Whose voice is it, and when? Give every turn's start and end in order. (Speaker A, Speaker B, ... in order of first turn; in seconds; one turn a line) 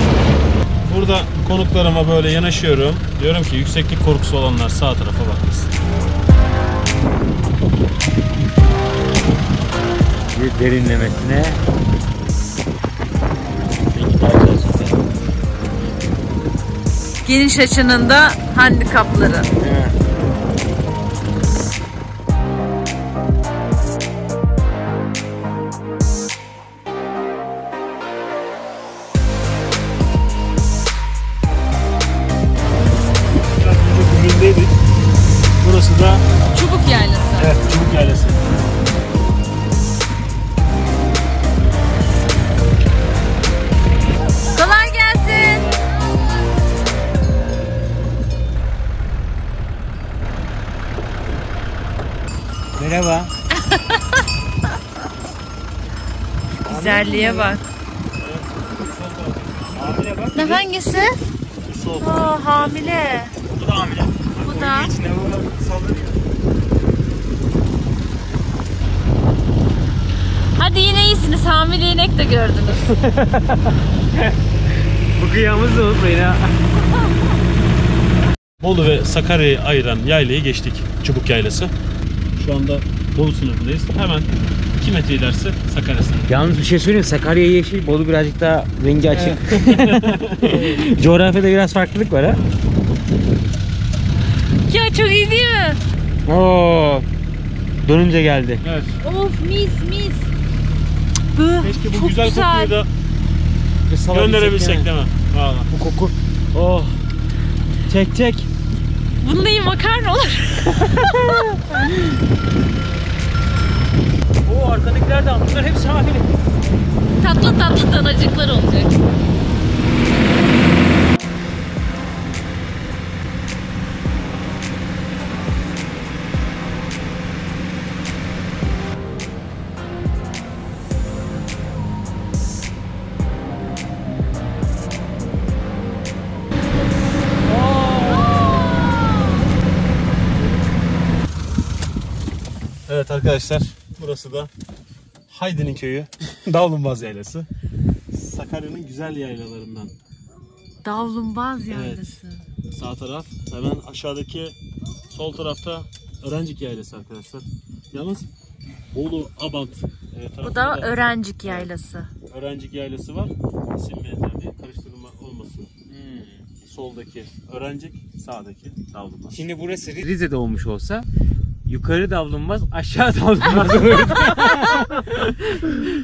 Speaker A: 0.8-5.7
Speaker B: 10.3-11.6
Speaker B: 13.8-15.0
Speaker C: 17.2-19.5
Speaker B: 19.6-19.9
Speaker A: 33.5-34.8
Speaker A: 35.6-36.2
Speaker C: 36.5-37.6
Speaker A: 37.4-38.4
Speaker C: 44.5-45.7
Speaker B: 52.8-53.3
Speaker C: 53.7-54.0
Speaker C: 56.6-57.6
Speaker A: 56.7-57.5
Speaker A: 58.2-60.6
Speaker C: 60.4-61.2
Speaker A: 61.5-63.0
Speaker C: 62.0-63.3
Speaker A: 63.5-66.2
Speaker C: 64.4-64.9
Speaker C: 70.5-73.0
Speaker B: 73.1-74.3
Speaker B: 75.2-76.5
Speaker A: 78.6-81.7
Speaker A: 82.3-86.3
Speaker B: 86.3-92.4
Speaker A: 89.1-90.8
Speaker A: 92.3-92.5
Speaker C: 94.7-95.8
Speaker B: 96.2-97.1
Speaker B: 97.8-98.6
Speaker A: 98.6-99.0
Speaker C: 99.0-100.3
Speaker C: 101.3-102.8
Speaker A: 101.6-102.9
Speaker B: 103.9-104.9
Speaker A: 104.1-105.7
Speaker B: 105.7-107.0
Speaker B: 107.9-108.5
Speaker C: 109.2-111.1
Speaker B: 114.4-116.3
Speaker C: 117.2-118.9
Speaker B: 137.5-138.3
Speaker C: 138.1-139.2
Speaker A: 142.9-144.5
Speaker A: 145.3-147.5
Speaker A: 148.1-149.9
Speaker C: 150.8-152.4
Speaker A: 151.7-152.2
Speaker A: 152.7-154.5
Speaker A: 155.1-158.3
Speaker A: 158.9-161.7
Speaker C: 160.4-162.1
Speaker A: 162.3-165.7
Speaker B: 165.9-166.4
Speaker A: 166.6-169.4
Speaker B: 169.3-171.1
Speaker B: 171.7-175.9
Speaker A: 173.5-175.0